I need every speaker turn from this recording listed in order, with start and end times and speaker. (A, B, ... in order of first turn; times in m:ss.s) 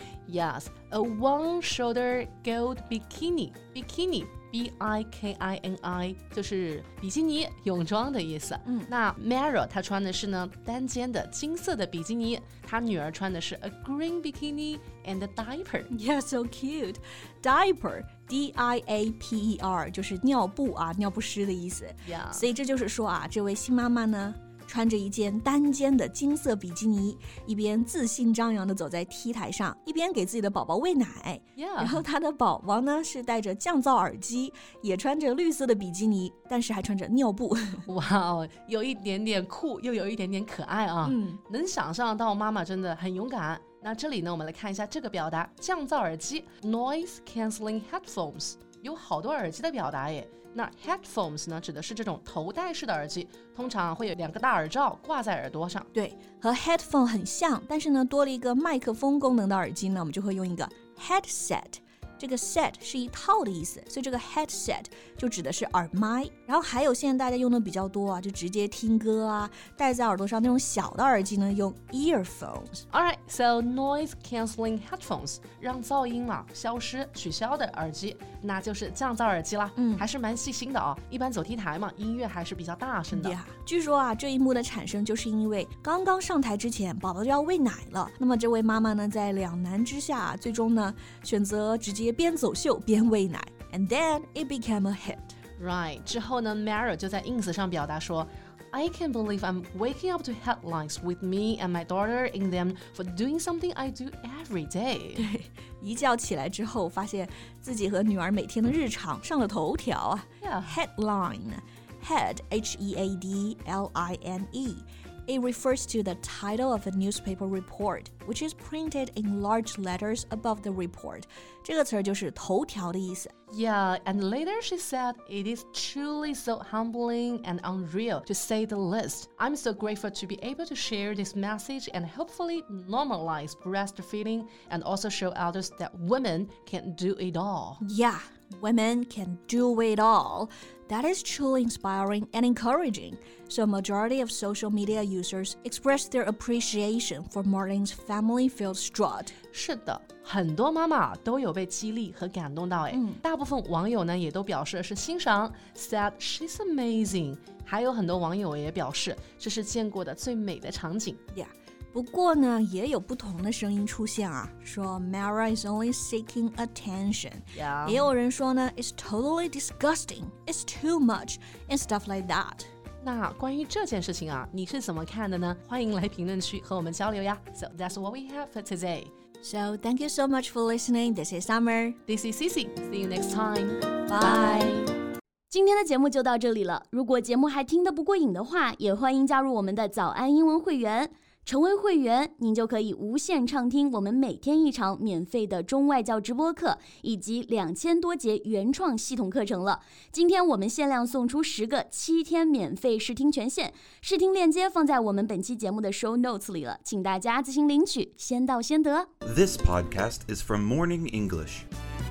0:00.2-0:15.9 A
0:15.9-0:37.8 B
0:22.0-0:22.5 A
0:31.6-0:32.0 A
0:37.8-0:55.9 A
0:41.0-0:41.4 B
0:55.9-1:12.8 B
1:12.9-1:23.4 A
1:19.8-1:20.0 B
1:23.1-1:35.4 B
1:35.6-1:45.2 A
1:45.2-2:03.3 B
1:50.4-1:50.7 A
2:03.5-2:17.8 A
2:17.8-2:29.4 B
2:29.5-2:41.2 A
2:32.9-2:33.2 B
2:41.3-2:52.7 B
2:47.5-2:48.1 A
2:53.0-2:59.1 A
2:59.4-3:02.0 B
3:02.1-3:04.9 A
3:04.1-3:04.7 B
3:05.5-3:29.1 C
3:29.2-3:31.6 D